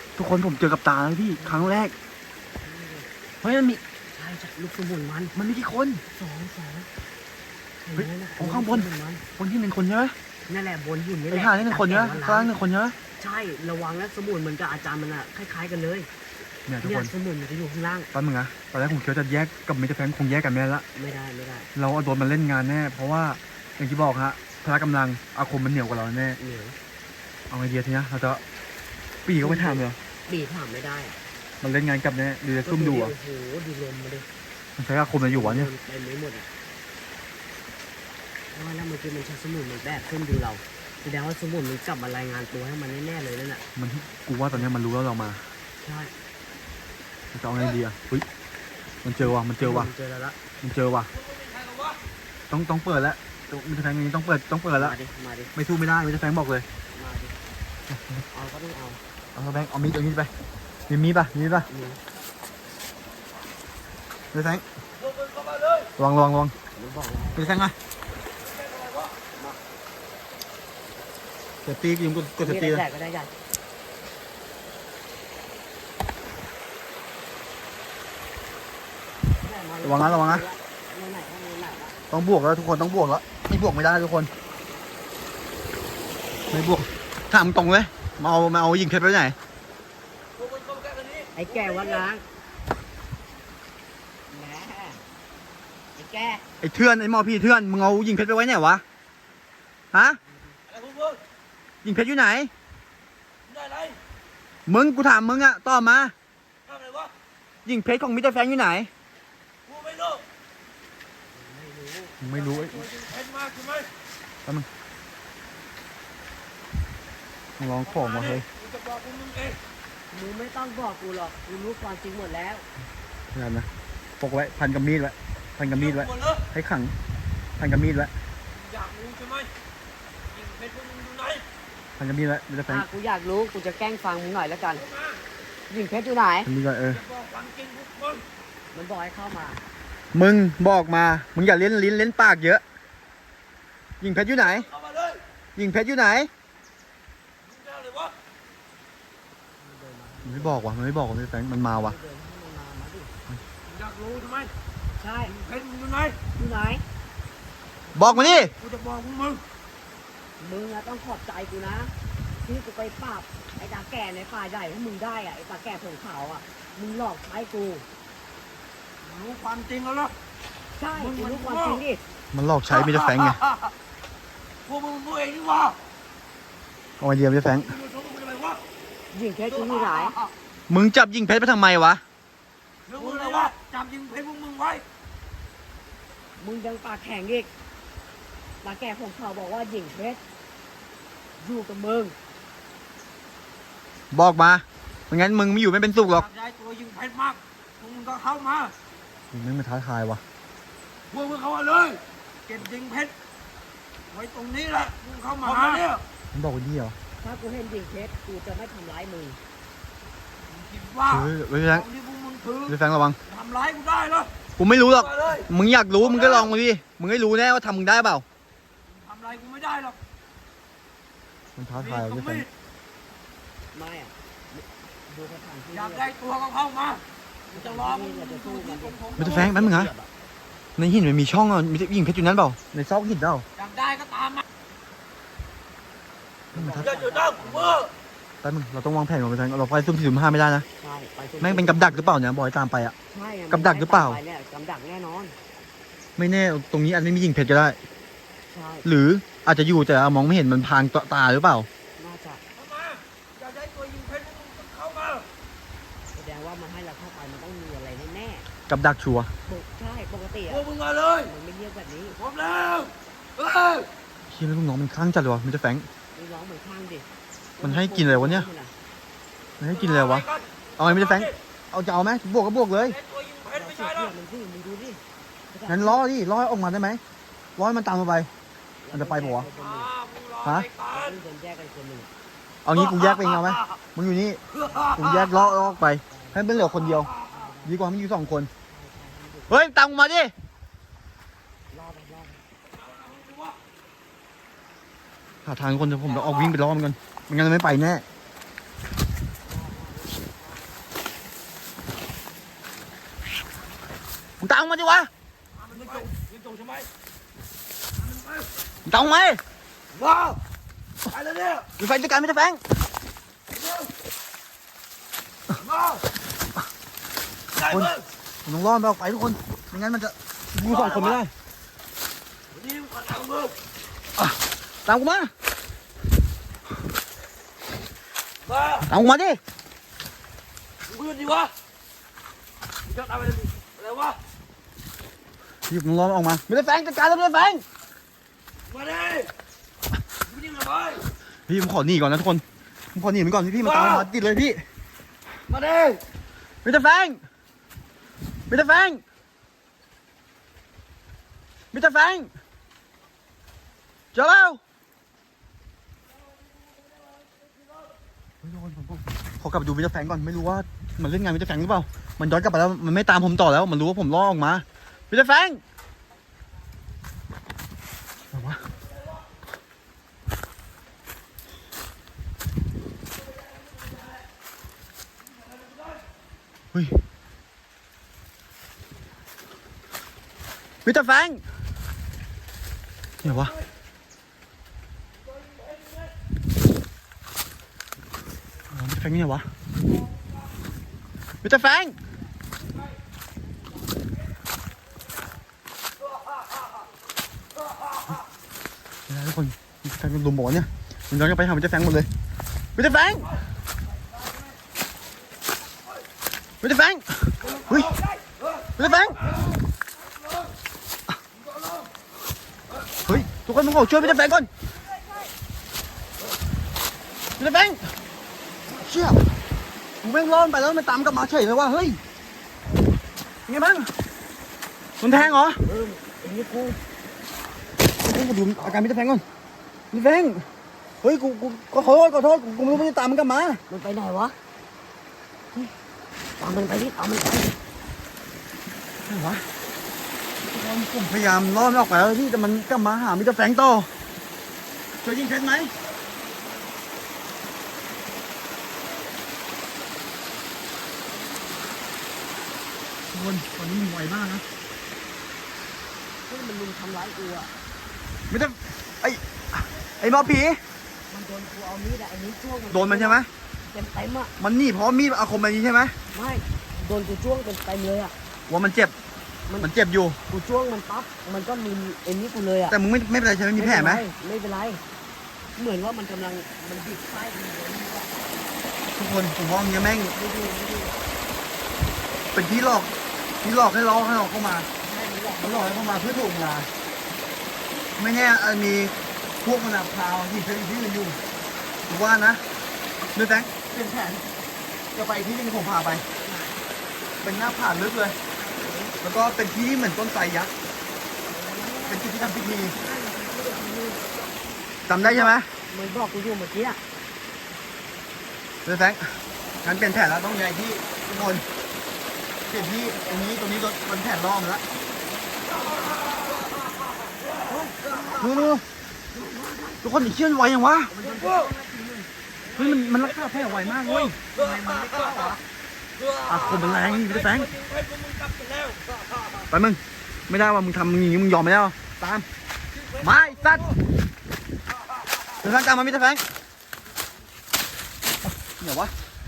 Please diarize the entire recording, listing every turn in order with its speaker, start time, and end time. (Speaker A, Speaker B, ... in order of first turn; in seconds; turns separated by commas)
Speaker A: 0.2-1.9, Speaker B: 1.4-1.7, Speaker B: 2.6-3.1, Speaker A: 3.4-3.8, Speaker B: 4.1-5.3, Speaker A: 5.3-6.0, Speaker B: 6.1-6.9, Speaker B: 7.8-9.2, Speaker A: 8.0-10.1, Speaker B: 10.5-12.5, Speaker A: 11.3-12.9, Speaker B: 13.2-16.1, Speaker A: 16.7-17.1, Speaker B: 16.8-18.1, Speaker A: 18.1-20.8, Speaker B: 20.9-21.7, Speaker A: 21.7-26.4, Speaker B: 26.4-26.8, Speaker A: 27.5-28.4, Speaker A: 29.2-30.0, Speaker B: 29.4-31.2, Speaker A: 31.6-33.1, Speaker B: 32.6-34.3, Speaker A: 34.8-35.7, Speaker B: 35.3-36.5, Speaker B: 38.5-43.6, Speaker A: 43.8-45.4, Speaker B: 45.8-46.1, Speaker A: 47.3-48.2, Speaker A: 49.0-49.9, Speaker B: 49.6-50.4, Speaker A: 50.6-51.1, Speaker C: 51.1-52.0, Speaker A: 52.5-55.0, Speaker B: 54.8-55.5, Speaker A: 55.5-56.6, Speaker B: 56.9-57.4, Speaker A: 57.9-58.2, Speaker B: 58.3-59.0, Speaker A: 59.3-60.3, Speaker A: 60.9-61.7, Speaker B: 61.7-62.0, Speaker A: 64.3-64.6, Speaker C: 65.0-65.9, Speaker A: 66.0-66.5, Speaker B: 66.7-67.7, Speaker A: 67.3-67.7, Speaker C: 68.3-69.2, Speaker A: 71.6-72.8, Speaker B: 72.4-73.3, Speaker B: 79.4-82.0, Speaker A: 79.8-80.4, Speaker A: 82.1-84.3, Speaker A: 86.5-89.4, Speaker C: 90.4-92.1, Speaker B: 91.3-92.2, Speaker B: 94.3-95.0, Speaker B: 96.0-96.4, Speaker A: 96.6-98.8, Speaker A: 99.9-100.2, Speaker B: 100.2-100.6, Speaker C: 100.7-101.2, Speaker A: 101.8-102.5, Speaker C: 103.5-104.0, Speaker A: 104.7-106.1, Speaker C: 106.7-107.1, Speaker A: 107.7-108.9, Speaker C: 109.7-110.2, Speaker B: 111.3-112.2, Speaker A: 112.2-112.8, Speaker C: 112.3-113.9, Speaker A: 117.6-118.5, Speaker C: 117.8-119.6, Speaker B: 120.1-122.7, Speaker A: 123.3-123.7, Speaker A: 124.2-126.9, Speaker C: 125.7-126.4, Speaker A: 127.6-128.1, Speaker C: 128.5-129.5, Speaker C: 130.3-131.4, Speaker A: 132.0-132.8, Speaker B: 132.7-134.8, Speaker C: 134.7-135.2, Speaker B: 135.7-136.5, Speaker A: 136.4-137.0, Speaker C: 136.9-138.2, Speaker B: 138.7-139.6, Speaker A: 140.1-142.6, Speaker A: 144.0-144.7, Speaker C: 144.6-145.2, Speaker A: 145.6-146.3, Speaker C: 147.4-148.1, Speaker B: 149.6-150.6, Speaker A: 150.2-151.9, Speaker B: 151.6-153.1, Speaker C: 153.6-154.5, Speaker B: 155.0-155.3, Speaker C: 155.3-156.2, Speaker B: 156.3-156.8, Speaker B: 157.9-158.4, Speaker A: 157.9-158.5, Speaker C: 158.2-159.4, Speaker B: 160.4-167.8, Speaker C: 169.0-170.1, Speaker B: 170.8-172.0, Speaker C: 170.9-171.8, Speaker A: 172.3-173.4, Speaker C: 172.7-173.7, Speaker C: 174.6-175.8, Speaker A: 177.0-177.8, Speaker C: 177.7-178.6, Speaker B: 179.1-180.1, Speaker C: 179.5-180.3, Speaker A: 180.7-182.0, Speaker C: 182.8-184.8, Speaker B: 182.9-183.5, Speaker B: 186.4-187.5, Speaker B: 188.6-190.2, Speaker B: 191.4-192.2, Speaker A: 194.1-196.3, Speaker C: 196.0-198.7, Speaker A: 199.3-200.2, Speaker C: 201.1-203.1, Speaker C: 204.1-206.0, Speaker B: 205.5-205.8, Speaker A: 206.3-206.9, Speaker B: 207.2-209.4, Speaker C: 210.5-214.3, Speaker A: 211.1-211.9, Speaker A: 212.7-213.2, Speaker A: 214.6-218.2, Speaker C: 214.9-215.5, Speaker C: 216.0-216.5, Speaker C: 218.9-220.0, Speaker A: 221.6-222.5, Speaker C: 221.8-222.5, Speaker B: 223.7-226.2, Speaker C: 225.7-229.9, Speaker B: 227.5-230.1, Speaker A: 229.2-229.9, Speaker A: 230.8-233.4, Speaker C: 233.6-234.4, Speaker B: 236.5-237.8, Speaker A: 236.5-236.9, Speaker C: 236.7-237.9, Speaker A: 238.4-240.7, Speaker B: 240.8-242.2, Speaker A: 241.4-242.9, Speaker B: 243.1-245.4, Speaker A: 243.5-244.2, Speaker A: 246.2-247.8, Speaker B: 248.5-248.8, Speaker A: 248.8-251.7, Speaker B: 252.0-252.4, Speaker C: 252.6-255.3, Speaker B: 256.1-258.5, Speaker A: 258.7-259.3, Speaker B: 259.4-260.7, Speaker C: 260.5-261.3, Speaker B: 261.2-262.2, Speaker C: 262.1-263.9, Speaker A: 264.3-265.9, Speaker B: 266.1-268.7, Speaker A: 267.6-268.5, Speaker A: 269.6-270.2, Speaker C: 269.7-271.4, Speaker A: 270.8-273.0, Speaker C: 272.9-274.1, Speaker B: 273.5-276.0, Speaker A: 275.7-277.0, Speaker A: 277.6-278.3, Speaker B: 278.8-279.9, Speaker A: 278.9-279.5, Speaker C: 279.5-281.2, Speaker B: 280.9-282.1, Speaker A: 282.6-284.4, Speaker C: 282.7-283.8, Speaker C: 284.5-285.4, Speaker B: 284.6-285.1, Speaker A: 284.9-287.1, Speaker B: 286.1-287.8, Speaker C: 286.8-287.4, Speaker A: 287.6-288.5, Speaker B: 288.6-289.6, Speaker A: 289.5-290.3, Speaker B: 291.7-292.4, Speaker C: 292.7-293.6, Speaker A: 295.4-298.0, Speaker C: 296.0-296.5, Speaker B: 299.4-300.8, Speaker A: 304.4-305.1, Speaker C: 305.5-306.9, Speaker C: 308.0-308.5, Speaker A: 308.9-309.4, Speaker C: 309.9-310.4, Speaker C: 311.1-311.7, Speaker A: 311.8-312.6, Speaker C: 313.5-313.9, Speaker C: 315.6-316.0, Speaker C: 317.5-318.0, Speaker A: 317.6-317.9, Speaker A: 318.4-321.3, Speaker C: 320.6-321.2, Speaker C: 322.5-323.6, Speaker A: 324.2-325.3, Speaker C: 328.4-328.9, Speaker A: 328.9-329.4, Speaker C: 330.9-331.5, Speaker C: 332.9-334.2, Speaker A: 335.7-337.6, Speaker C: 338.7-339.3, Speaker C: 340.2-341.1, Speaker A: 341.5-344.6, Speaker C: 343.6-344.1, Speaker C: 345.5-346.0, Speaker A: 346.6-347.2, Speaker A: 348.5-349.0, Speaker A: 351.7-352.3, Speaker A: 354.1-354.6, Speaker A: 358.4-365.6, Speaker A: 368.3-368.7, Speaker A: 376.7-377.0, Speaker A: 380.9-381.4, Speaker A: 383.2-383.6, Speaker C: 385.4-386.1, Speaker A: 388.7-389.5, Speaker A: 391.4-392.0, Speaker A: 399.1-402.1, Speaker A: 402.8-403.3, Speaker A: 406.6-407.9, Speaker C: 407.4-409.4, Speaker A: 408.8-409.2, Speaker C: 411.4-411.8, Speaker A: 413.1-414.5, Speaker A: 417.4-417.9, Speaker A: 418.7-419.3, Speaker A: 420.0-422.0, Speaker A: 423.5-423.9, Speaker A: 425.0-425.6, Speaker B: 425.1-426.8, Speaker A: 428.0-429.2, Speaker A: 429.9-430.5, Speaker A: 431.0-433.6, Speaker B: 433.7-434.4, Speaker B: 436.4-437.6, Speaker A: 439.1-439.5, Speaker A: 440.5-443.9, Speaker A: 445.0-445.7, Speaker B: 451.0-452.1, Speaker A: 453.1-454.4, Speaker B: 456.2-457.5, Speaker A: 458.3-460.6, Speaker B: 460.0-460.4, Speaker B: 461.1-464.3, Speaker A: 462.7-463.3, Speaker A: 464.4-465.9, Speaker B: 466.1-468.1, Speaker A: 468.5-468.9, Speaker A: 469.6-470.2, Speaker B: 470.3-472.8, Speaker A: 472.7-474.0, Speaker B: 473.5-474.8, Speaker B: 475.6-478.1, Speaker A: 478.9-480.2, Speaker B: 480.1-481.0, Speaker A: 482.3-482.9, Speaker A: 483.4-484.7, Speaker B: 484.8-486.0, Speaker A: 485.4-486.7, Speaker A: 488.0-491.2, Speaker A: 491.9-492.4, Speaker A: 493.1-494.2, Speaker A: 494.9-496.1, Speaker B: 496.2-496.6, Speaker A: 497.2-498.2, Speaker B: 498.3-498.9, Speaker A: 499.0-500.5, Speaker B: 501.2-502.1, Speaker A: 501.9-502.8, Speaker B: 502.7-504.1, Speaker A: 504.9-505.5, Speaker B: 505.0-506.8, Speaker A: 508.6-511.4, Speaker B: 511.1-511.4, Speaker B: 512.5-513.4, Speaker A: 512.5-514.6, Speaker B: 514.7-516.3, Speaker B: 517.4-518.5, Speaker A: 518.2-518.6, Speaker B: 519.1-519.9, Speaker A: 519.8-520.9, Speaker B: 520.9-522.1, Speaker C: 521.0-521.5, Speaker C: 522.5-525.4, Speaker A: 522.5-524.2, Speaker B: 524.3-525.4, Speaker C: 526.0-529.4, Speaker A: 526.2-527.5, Speaker A: 529.5-532.3, Speaker C: 532.7-533.8, Speaker A: 533.0-533.7, Speaker A: 535.4-536.2, Speaker A: 538.2-538.9